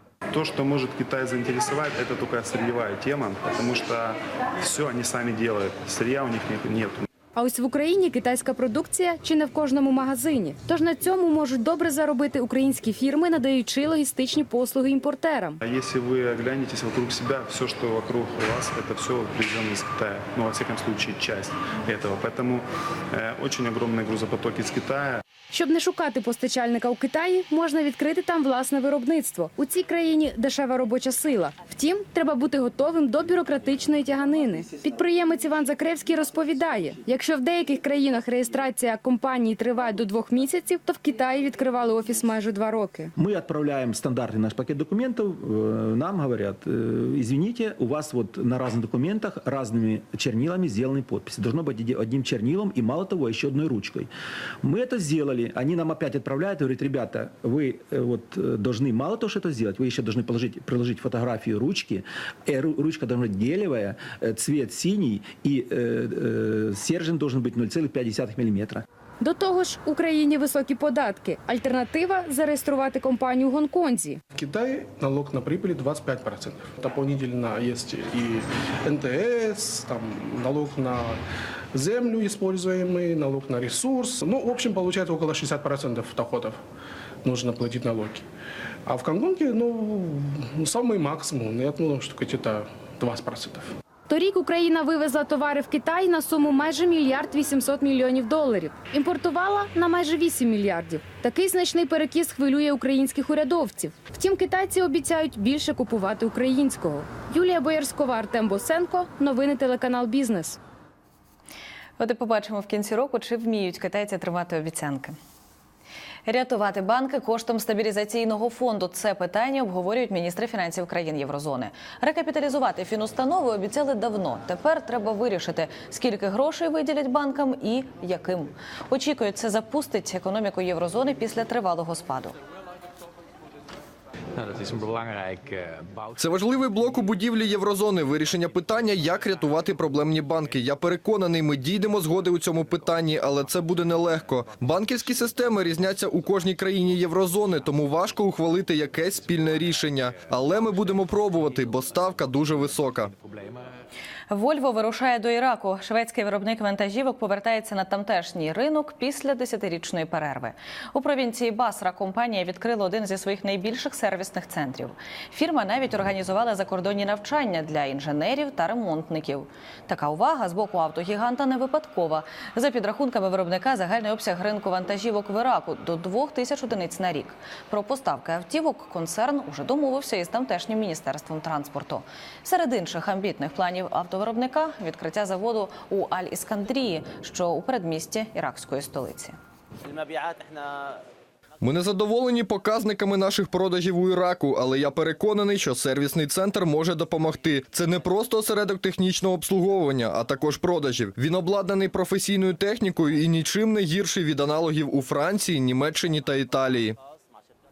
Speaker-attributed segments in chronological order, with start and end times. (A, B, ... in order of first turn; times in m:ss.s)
0:00.3-0:07.0 A
0:07.3-0:15.6 B
0:15.6-0:25.2 A
0:25.5-0:43.1 B
0:43.2-0:54.1 C
0:54.6-1:08.8 C
1:09.2-1:14.2 B
1:14.3-1:21.2 D
1:21.7-1:26.6 D
1:27.2-1:28.2 D
1:28.8-1:33.7 D
1:34.1-1:50.6 B
1:52.0-1:55.2 E
1:56.2-2:12.4 E
2:16.2-2:33.1 F
2:34.3-3:09.4 E
3:11.6-3:27.0 F